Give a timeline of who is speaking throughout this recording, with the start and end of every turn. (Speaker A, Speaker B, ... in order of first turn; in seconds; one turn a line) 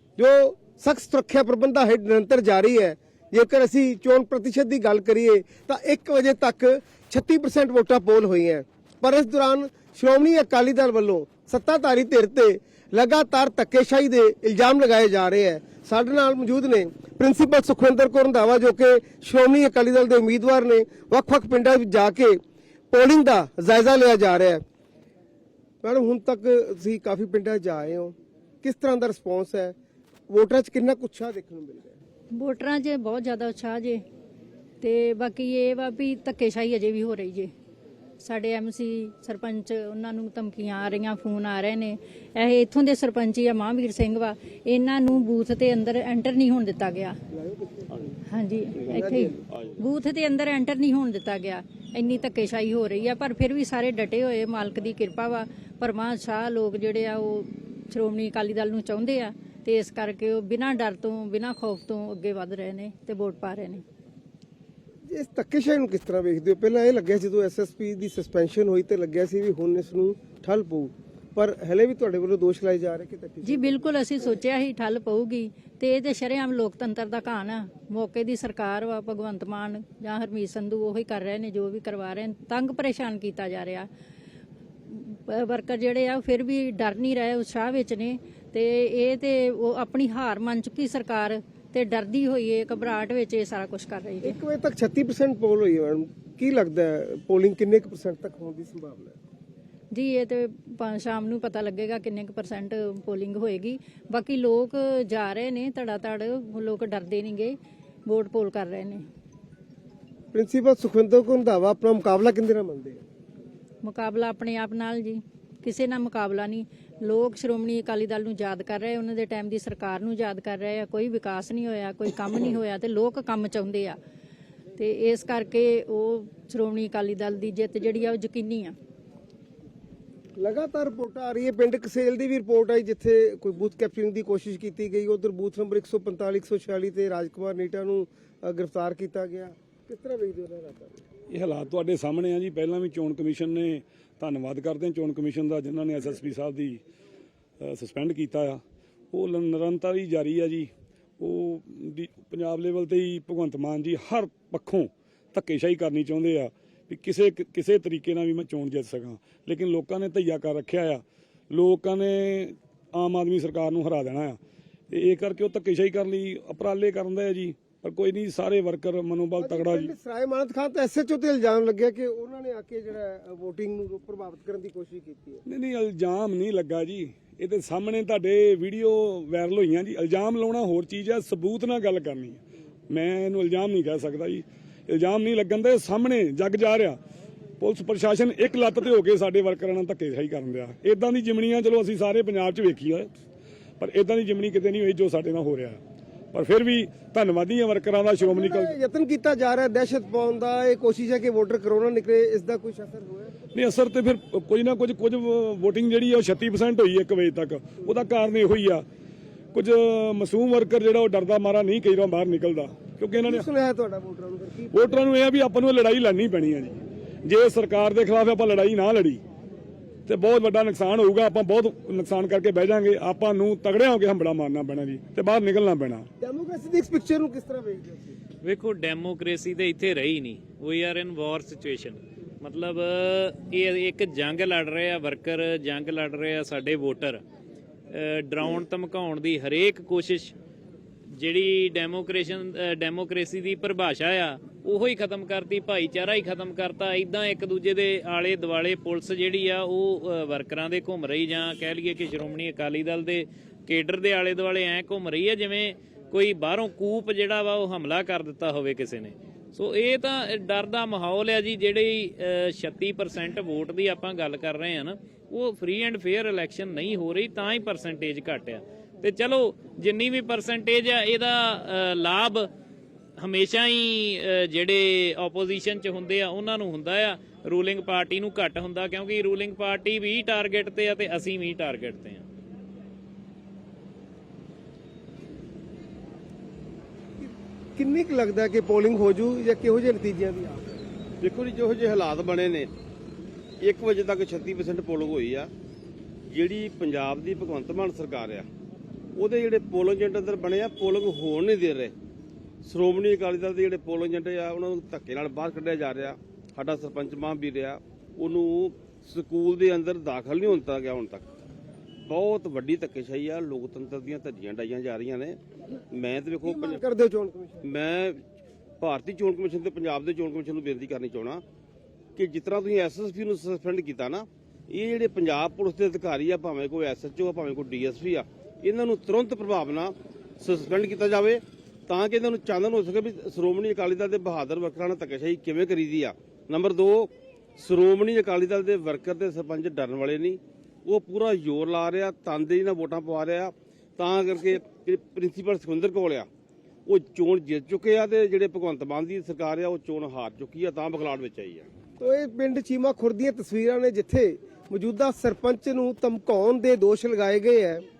Speaker A: 0.2-22.4
Speaker A: 22.9-24.6
Speaker A: 25.8-29.7
Speaker A: 30.3-32.0
Speaker B: 32.3-34.0
Speaker B: 34.8-37.5
Speaker B: 38.2-47.2
Speaker A: 47.3-48.2
Speaker B: 48.3-63.8
Speaker C: 48.8-49.8
Speaker A: 48.9-49.5
Speaker A: 65.1-73.9
Speaker B: 73.4-83.9
Speaker B: 84.9-94.4
Speaker A: 94.2-99.2
Speaker B: 99.9-107.5
Speaker B: 108.0-109.0
Speaker A: 110.3-113.0
Speaker B: 113.8-124.0
Speaker B: 124.8-128.8
Speaker A: 130.4-141.0
Speaker D: 141.3-146.8
Speaker D: 147.6-148.6
Speaker D: 149.1-164.4
Speaker D: 164.9-169.9
Speaker A: 169.4-175.4
Speaker D: 175.4-187.0
Speaker D: 187.6-193.1
Speaker D: 193.8-195.8
Speaker D: 196.3-198.7
Speaker A: 198.2-203.3
Speaker D: 203.5-208.8
Speaker D: 209.5-213.5
Speaker A: 213.2-215.0
Speaker D: 214.7-219.2
Speaker D: 220.1-226.1
Speaker A: 226.2-228.2
Speaker E: 228.4-237.2
Speaker E: 237.9-240.3
Speaker E: 241.1-272.5
Speaker E: 273.2-282.2
Speaker A: 287.2-290.8
Speaker C: 291.2-292.7
Speaker C: 293.6-295.5
Speaker C: 296.3-298.5
Speaker C: 299.1-301.9
Speaker C: 302.6-311.3
Speaker C: 312.0-315.4
Speaker C: 315.9-316.8
Speaker A: 316.4-317.6
Speaker C: 317.6-318.2
Speaker C: 318.8-321.4
Speaker C: 322.1-346.3
Speaker C: 346.9-351.7
Speaker A: 352.0-357.8